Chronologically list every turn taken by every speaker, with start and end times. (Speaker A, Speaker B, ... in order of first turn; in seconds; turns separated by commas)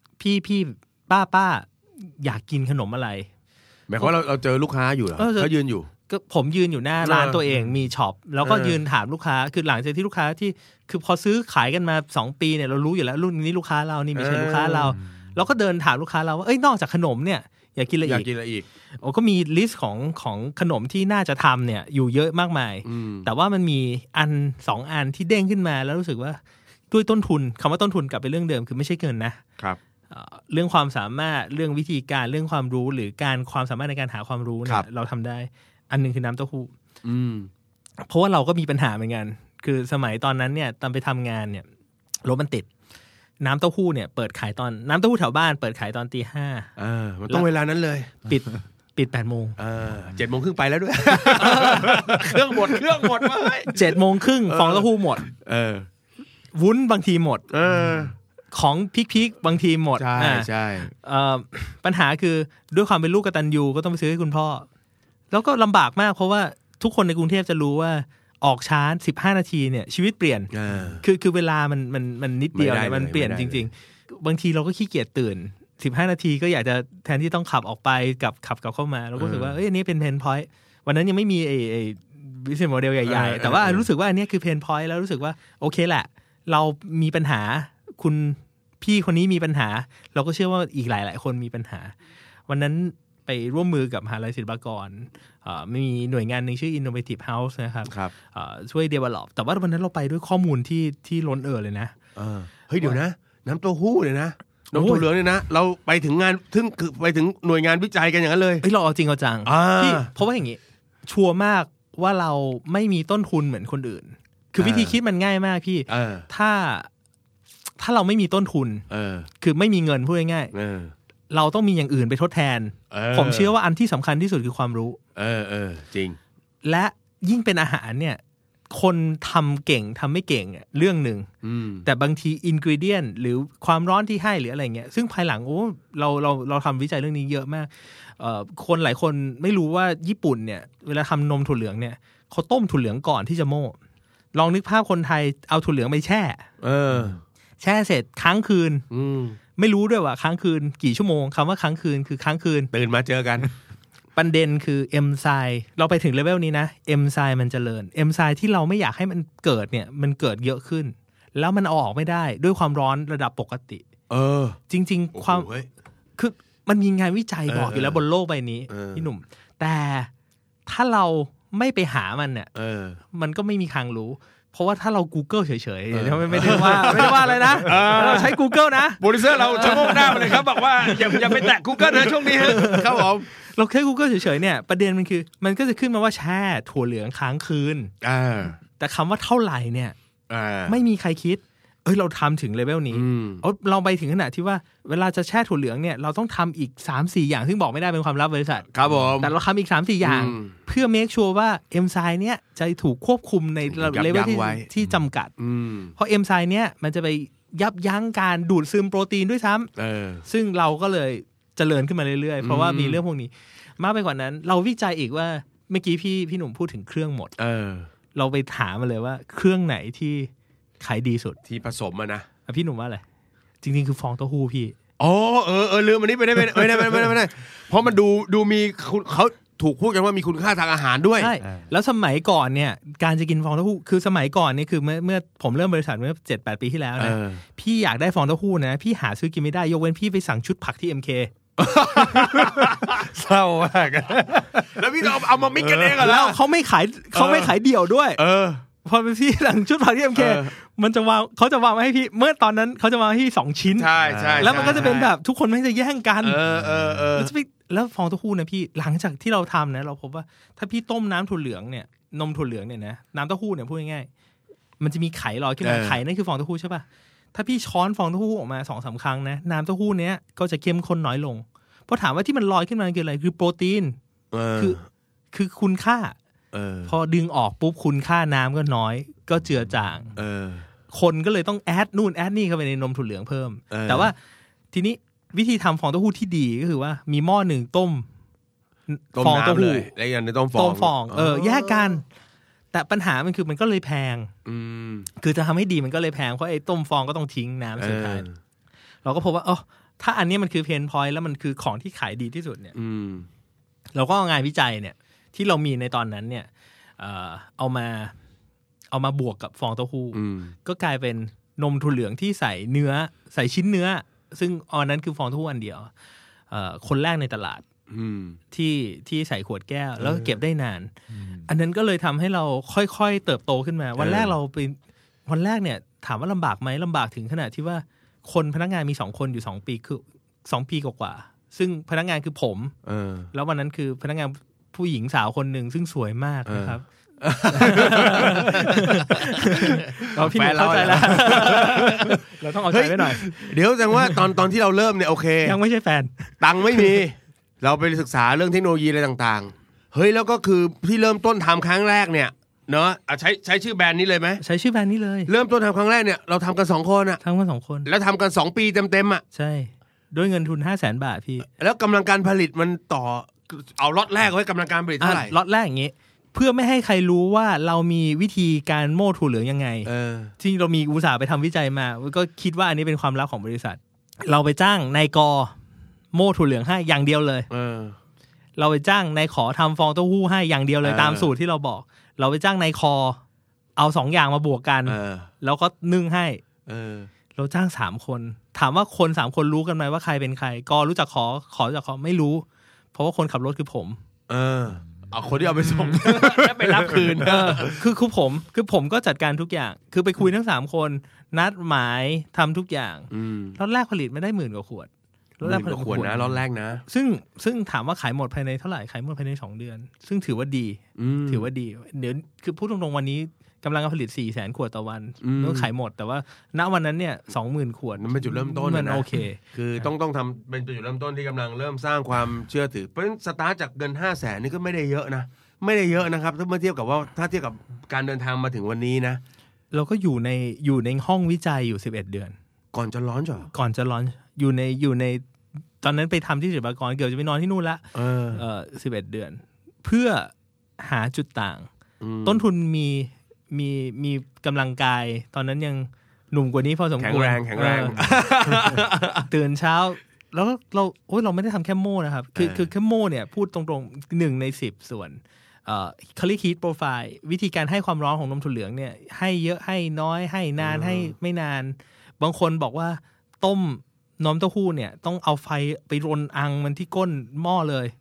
Speaker A: 0.2-3.3, Speaker B: 3.9-5.9, Speaker A: 5.2-5.5, Speaker A: 6.1-18.3, Speaker B: 7.0-7.4, Speaker B: 8.4-8.8, Speaker B: 14.1-14.9, Speaker B: 18.1-18.6, Speaker A: 19.0-26.4, Speaker B: 22.8-23.3, Speaker A: 26.9-29.4, Speaker A: 30.1-36.7, Speaker B: 37.0-37.5, Speaker A: 38.0-41.6, Speaker A: 42.2-42.7, Speaker A: 43.4-46.7, Speaker B: 46.8-48.1, Speaker A: 48.2-49.6, Speaker B: 49.6-53.8, Speaker A: 51.1-52.3, Speaker A: 53.7-55.2, Speaker B: 54.5-55.9, Speaker A: 56.5-57.5, Speaker B: 57.5-58.1, Speaker A: 58.5-64.7, Speaker B: 60.0-60.9, Speaker A: 65.3-91.9, Speaker B: 70.5-71.0, Speaker B: 72.5-73.6, Speaker B: 79.2-79.5, Speaker B: 83.0-83.9, Speaker A: 92.5-101.9, Speaker B: 97.8-98.1, Speaker B: 102.1-108.6, Speaker A: 104.7-105.1, Speaker A: 108.6-116.9, Speaker B: 109.4-110.1, Speaker B: 114.6-115.0, Speaker B: 115.9-116.3, Speaker A: 117.8-118.8, Speaker B: 118.9-119.3, Speaker A: 119.4-120.5, Speaker B: 120.5-120.9, Speaker A: 121.3-125.0, Speaker B: 122.9-123.5, Speaker B: 125.2-126.2, Speaker A: 126.6-131.3, Speaker B: 131.4-131.9, Speaker A: 131.8-143.8, Speaker A: 144.3-146.4, Speaker B: 146.6-147.2, Speaker A: 147.6-148.8, Speaker B: 148.9-149.4, Speaker A: 149.6-152.7, Speaker B: 152.7-153.5, Speaker A: 154.1-163.8, Speaker B: 164.1-164.6, Speaker A: 164.7-165.5, Speaker B: 165.1-165.7, Speaker A: 166.2-170.1, Speaker B: 167.5-168.0, Speaker B: 168.7-169.1, Speaker A: 170.7-172.5, Speaker B: 172.5-173.0, Speaker A: 173.1-187.9, Speaker B: 175.9-178.4, Speaker B: 179.0-183.3, Speaker B: 188.0-188.6, Speaker A: 188.8-189.9, Speaker B: 190.3-190.8, Speaker A: 190.7-205.3, Speaker B: 192.9-193.4, Speaker B: 198.7-199.3, Speaker B: 200.0-200.5, Speaker B: 203.7-204.7, Speaker B: 205.4-205.9, Speaker A: 205.9-209.7, Speaker B: 209.8-210.2, Speaker A: 210.2-217.3, Speaker B: 212.4-213.0, Speaker B: 217.4-217.9, Speaker A: 218.1-221.4, Speaker B: 221.4-222.3, Speaker A: 222.4-223.0, Speaker A: 223.6-224.7, Speaker B: 225.0-231.3, Speaker A: 231.2-241.3, Speaker B: 237.0-237.4, Speaker B: 241.6-243.1, Speaker C: 242.0-244.7, Speaker B: 244.7-246.4, Speaker A: 245.7-248.2, Speaker B: 247.1-247.5, Speaker B: 248.2-248.6, Speaker A: 248.8-256.4, Speaker B: 250.1-250.5, Speaker B: 253.8-255.1, Speaker C: 254.0-255.0, Speaker B: 256.2-257.3, Speaker C: 256.5-257.0, Speaker A: 257.1-264.1, Speaker A: 264.8-274.0, Speaker B: 265.6-266.0, Speaker B: 274.3-274.9, Speaker A: 275.3-276.1, Speaker B: 276.5-276.9, Speaker A: 276.9-280.1, Speaker B: 280.1-280.6, Speaker A: 280.9-284.2, Speaker B: 283.7-284.1, Speaker A: 284.7-288.1, Speaker A: 288.9-289.9, Speaker B: 289.1-291.9, Speaker A: 290.5-292.0, Speaker A: 292.7-294.3, Speaker B: 294.4-295.1, Speaker A: 295.2-298.2, Speaker B: 297.8-298.4, Speaker A: 299.0-302.7, Speaker B: 302.7-303.3, Speaker A: 303.9-308.1, Speaker A: 308.9-315.9, Speaker B: 310.1-310.5, Speaker A: 316.5-317.6, Speaker B: 317.9-318.4, Speaker A: 318.5-320.9, Speaker B: 320.0-320.3, Speaker C: 321.1-321.4, Speaker A: 321.5-332.7, Speaker B: 324.0-324.3, Speaker B: 332.8-333.3, Speaker A: 333.3-336.9, Speaker B: 336.4-345.6, Speaker A: 337.5-344.1, Speaker A: 345.4-347.0, Speaker B: 346.4-354.4, Speaker A: 354.4-355.3, Speaker B: 355.3-357.2, Speaker A: 357.2-357.9, Speaker B: 357.9-359.2, Speaker A: 359.3-361.5, Speaker B: 361.5-365.3, Speaker A: 365.0-375.5, Speaker B: 369.8-370.3, Speaker A: 376.1-377.5, Speaker B: 377.5-377.9, Speaker A: 378.6-383.2, Speaker B: 380.8-381.3, Speaker A: 383.8-386.4, Speaker B: 384.9-385.3, Speaker B: 386.6-387.1, Speaker A: 387.3-394.0, Speaker B: 394.3-397.8, Speaker C: 395.9-397.0, Speaker A: 397.2-404.9, Speaker B: 403.1-403.6, Speaker A: 405.4-406.2, Speaker B: 405.4-406.8, Speaker A: 406.9-419.4, Speaker B: 411.0-411.5, Speaker B: 415.2-415.7, Speaker B: 418.0-429.2, Speaker A: 429.7-432.3, Speaker B: 432.7-433.5, Speaker A: 433.5-435.2, Speaker A: 435.8-441.7, Speaker B: 437.9-438.4, Speaker B: 442.0-442.4, Speaker A: 442.2-467.9, Speaker B: 447.0-449.3, Speaker B: 452.4-452.7, Speaker B: 460.6-461.1